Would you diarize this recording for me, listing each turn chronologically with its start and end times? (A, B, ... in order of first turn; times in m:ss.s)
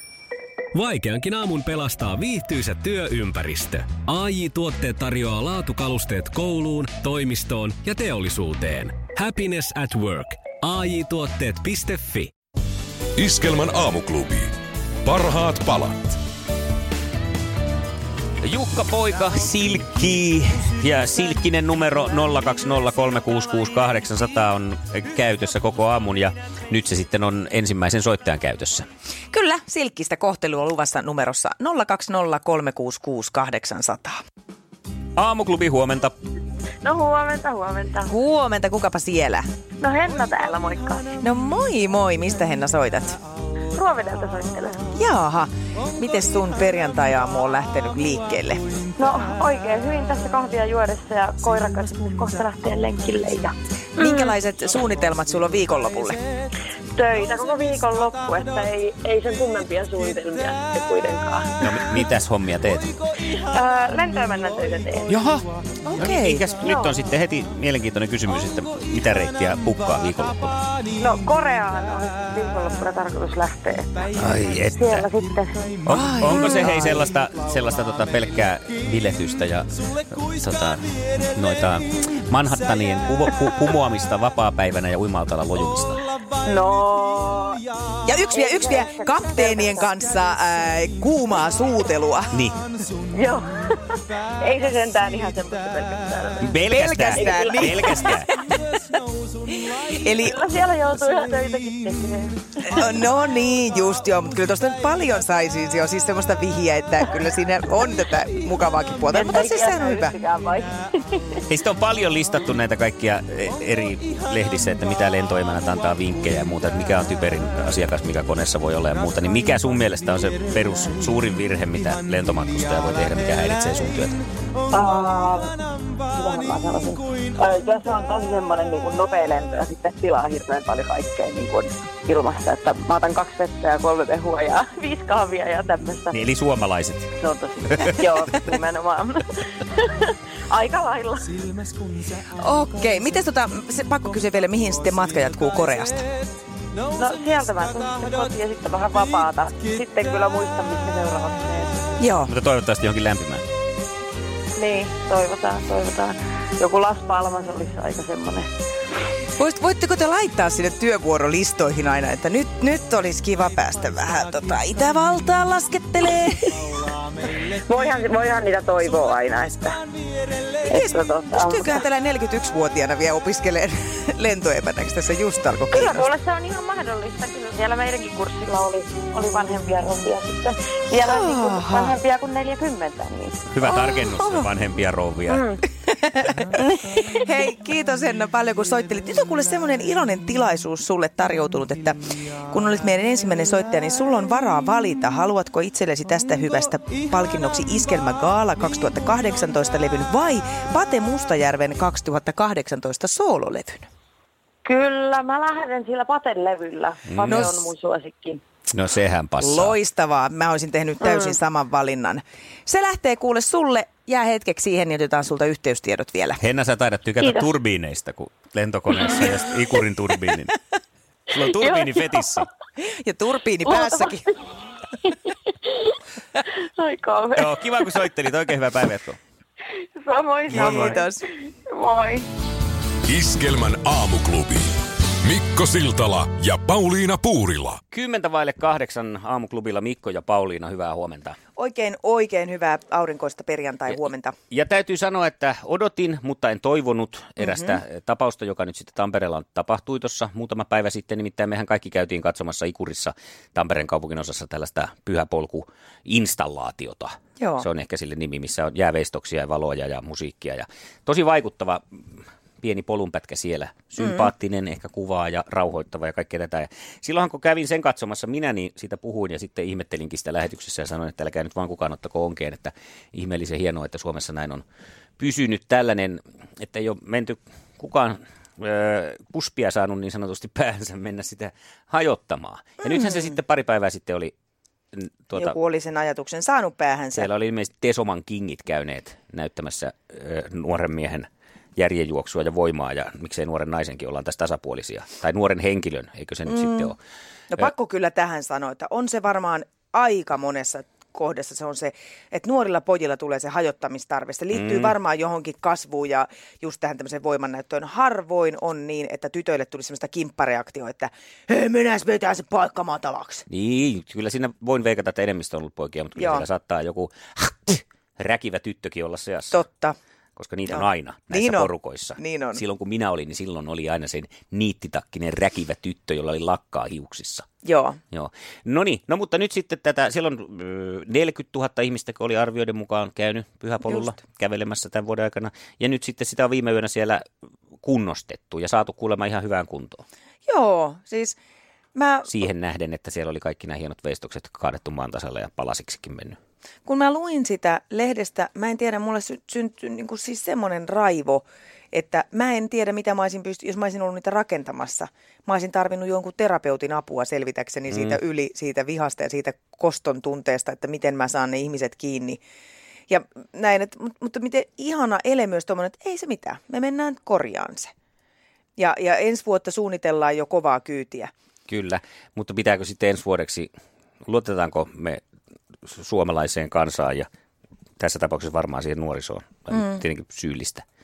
0:00.7-0:12.3 A
0:13.2-0:14.5 B
0:15.0-0:16.2 B
0:18.4-0:28.9 C
0:29.3-0:34.2 D
0:35.2-0:36.2 C
0:36.8-0:38.1 E
0:38.1-0:39.5 D
0:39.8-0:41.1 E
0:41.2-0:43.2 D
0:43.7-0:44.9 E
0:45.0-0:48.6 D
0:49.0-0:54.3 E
0:54.0-0:56.2 D
0:56.9-1:02.0 E
1:01.6-1:02.9 C
1:03.4-1:05.2 E
1:05.1-1:10.6 C
1:05.8-1:06.4 D
1:06.6-1:07.0 E
1:11.0-1:15.7 E
1:14.2-1:15.0 C
1:15.8-1:26.0 C
1:15.9-1:17.1 D
1:26.4-1:27.6 E
1:28.1-1:32.3 D
1:28.3-1:30.0 E
1:32.3-1:32.6 C
1:33.1-1:33.8 E
1:34.4-1:38.8 E
1:36.4-1:38.3 C
1:36.7-1:38.3 D
1:39.9-1:40.4 D
1:40.1-1:43.0 E
1:42.6-1:50.2 D
1:49.1-1:51.4 E
1:51.5-2:04.2 C
2:04.7-2:16.2 E
2:16.1-2:17.1 C
2:17.2-2:21.4 E
2:22.4-2:26.0 D
2:27.0-2:31.8 E
2:32.0-2:32.3 D
2:32.2-2:33.4 C
2:34.6-2:38.5 E
2:39.4-2:46.7 D
2:47.6-2:49.8 E
2:50.7-2:51.8 E
2:50.7-2:56.1 D
2:55.7-3:03.4 E
3:01.0-3:02.0 D
3:03.5-3:05.5 C
3:03.7-3:04.5 D
3:05.3-3:05.6 E
3:05.9-3:23.9 D
3:06.6-3:07.2 E
3:24.6-3:28.4 E
3:27.1-3:27.6 C
3:28.7-3:29.8 C
3:29.4-3:36.4 D
3:31.0-3:31.4 E
3:36.4-3:40.6 C
3:37.2-3:37.5 E
3:41.3-3:42.5 C
3:41.4-3:42.5 E
3:42.8-3:44.3 D
3:43.6-3:44.3 E
3:45.0-3:45.9 E
3:46.5-3:48.1 E
3:47.4-3:49.2 C
3:50.0-3:51.1 E
3:50.5-3:51.2 D
3:50.5-3:51.0 C
3:51.7-3:52.3 E
3:53.1-3:57.8 B
3:57.9-4:01.4 C
4:01.6-4:04.4 D
4:04.5-4:22.0 C
4:07.4-4:07.8 D
4:17.4-4:17.7 D
4:22.6-4:34.6 C
4:24.0-4:24.3 D
4:35.2-4:44.3 C
4:42.8-4:43.3 D
4:44.9-4:45.6 C
4:45.4-4:47.3 D
4:47.2-4:57.0 C
4:56.5-4:57.0 D
4:57.5-5:13.4 D
5:04.5-5:04.9 C
5:13.5-5:19.6 C
5:16.2-5:16.5 D
5:19.5-5:20.0 D
5:20.4-5:27.5 C
5:20.7-5:22.6 D
5:27.6-5:28.0 D
5:28.1-5:37.2 C
5:33.8-5:34.1 D
5:37.8-5:40.0 C
5:40.5-5:41.4 D
5:42.0-5:42.3 D
5:42.3-5:46.4 C
5:46.9-6:02.4 D
5:57.9-5:58.2 C
6:03.1-6:07.9 D
6:08.8-6:11.3 D
6:11.7-6:13.7 C
6:14.2-6:15.2 C
6:15.9-6:17.3 C
6:18.0-6:20.8 C
6:19.7-6:20.0 D